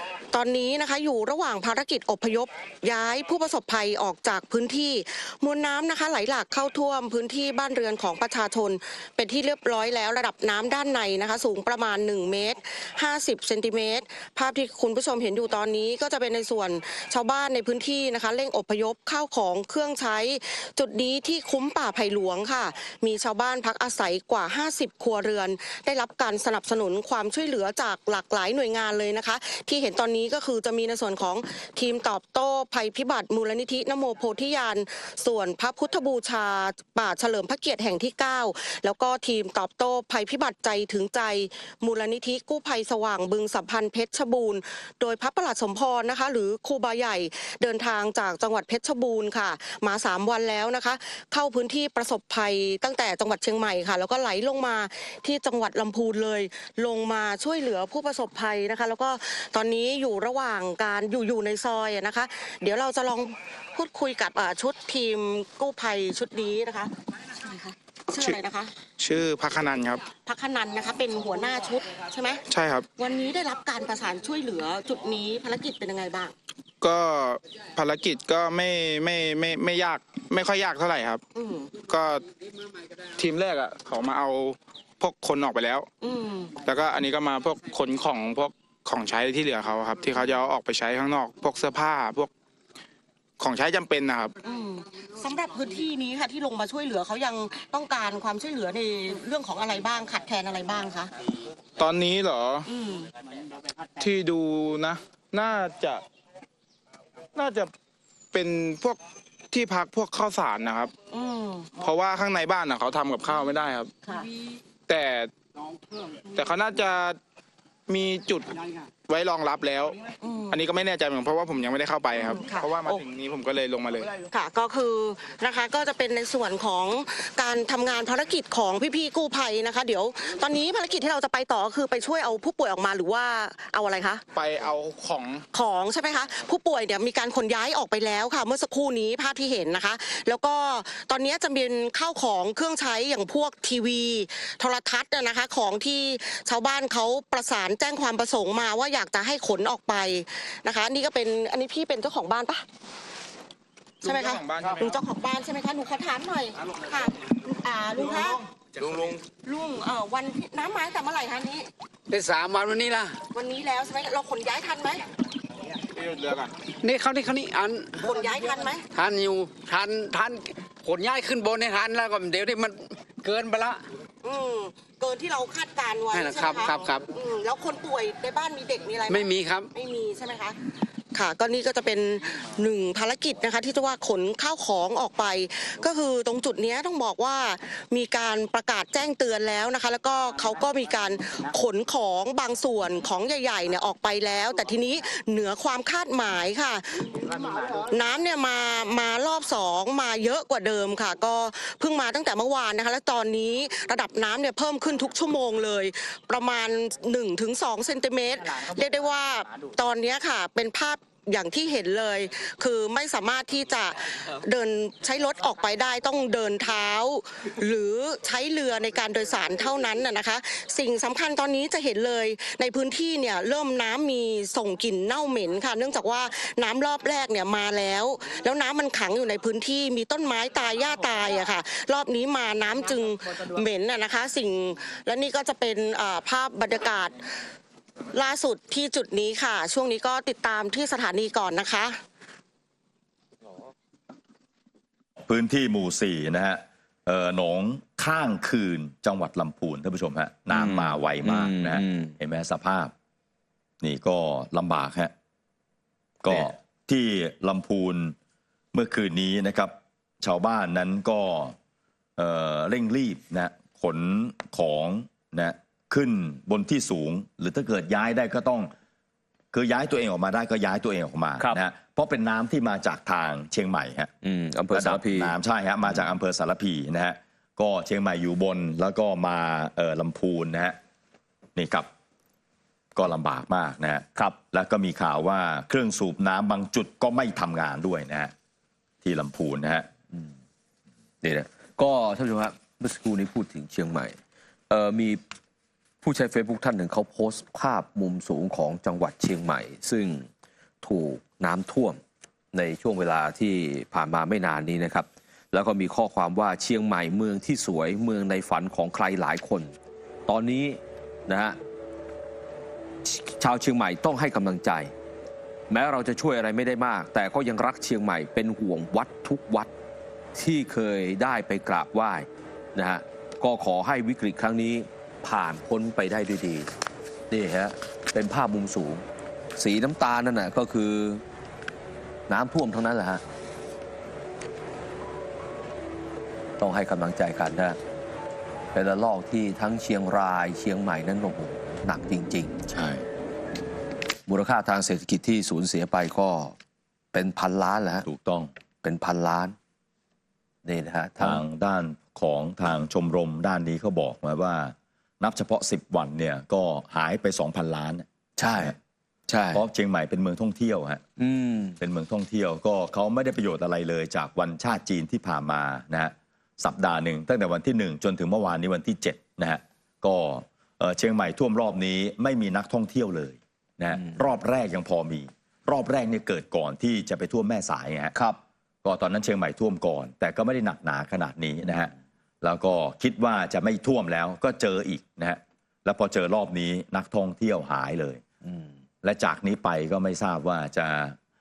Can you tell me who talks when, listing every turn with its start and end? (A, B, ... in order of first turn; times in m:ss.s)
0:00.3-1:08.7 A
1:09.0-1:10.0 B
1:10.1-1:12.4 A
1:12.5-1:12.9 B
1:13.0-1:16.3 A
1:16.8-1:21.2 B
1:21.3-1:21.8 A
1:21.8-1:22.2 B
1:23.2-1:25.9 B
1:26.0-1:26.6 A
1:26.6-1:32.3 B
1:33.4-1:34.3 B
1:34.4-1:41.1 A
1:41.8-1:42.7 B
1:42.6-1:43.1 A
1:44.0-1:46.0 B
1:47.4-1:47.7 B
1:48.3-1:49.0 B
1:49.5-1:50.9 B
1:51.1-1:51.8 A
1:51.8-1:53.9 B
1:54.0-1:54.3 A
1:54.9-1:55.3 B
1:56.3-1:57.2 B
1:57.9-2:00.0 B
2:00.2-2:00.6 A
2:00.5-2:04.1 B
2:02.1-2:03.0 A
2:04.2-2:14.2 A
2:14.3-2:15.4 B
2:15.5-2:32.6 A
2:34.0-2:34.8 B
2:34.0-2:38.4 A
2:39.0-2:41.7 A
2:42.1-2:43.2 C
2:43.3-2:45.1 A
2:45.9-2:46.5 B
2:46.6-2:48.0 C
2:48.0-2:48.8 A
2:48.9-2:53.9 C
2:54.2-3:00.6 A
2:56.1-2:57.1 C
2:59.1-2:59.7 C
3:01.1-3:57.2 A
3:58.1-4:02.0 A
4:05.2-4:12.9 D
4:10.5-4:12.2 E
4:13.8-4:15.1 D
4:16.2-4:18.2 D
4:18.7-4:21.6 D
4:22.2-4:28.7 D
4:29.5-4:34.1 D
4:31.4-4:31.6 E
4:34.2-4:36.1 E
4:34.7-4:40.8 D
4:41.6-4:41.9 D
4:42.9-4:48.3 D
4:49.0-4:49.9 D
4:51.2-4:54.2 E
4:54.7-4:55.2 E
4:56.0-5:00.3 E
5:00.8-5:02.0 E
5:02.5-5:09.7 E
5:10.3-5:11.6 E
5:13.0-5:14.9 E
5:15.7-5:19.7 E
5:20.3-5:26.7 E
5:27.3-5:29.0 E
5:29.6-5:31.2 E
5:32.3-5:33.2 E
5:36.6-5:37.8 E
5:38.7-5:42.6 E
5:42.6-5:43.0 D
5:44.3-5:46.6 E
5:47.1-5:48.0 E
5:48.0-5:48.5 D
5:48.8-5:49.5 E
5:50.6-5:51.4 E
5:51.2-5:58.0 D
5:58.4-5:58.8 E
5:59.3-5:59.6 E
5:59.5-6:01.0 D
6:01.2-6:01.8 E
6:01.8-6:18.1 D
6:18.1-6:18.4 E
6:18.8-6:28.2 D
6:28.4-6:28.7 E
6:29.0-6:31.2 D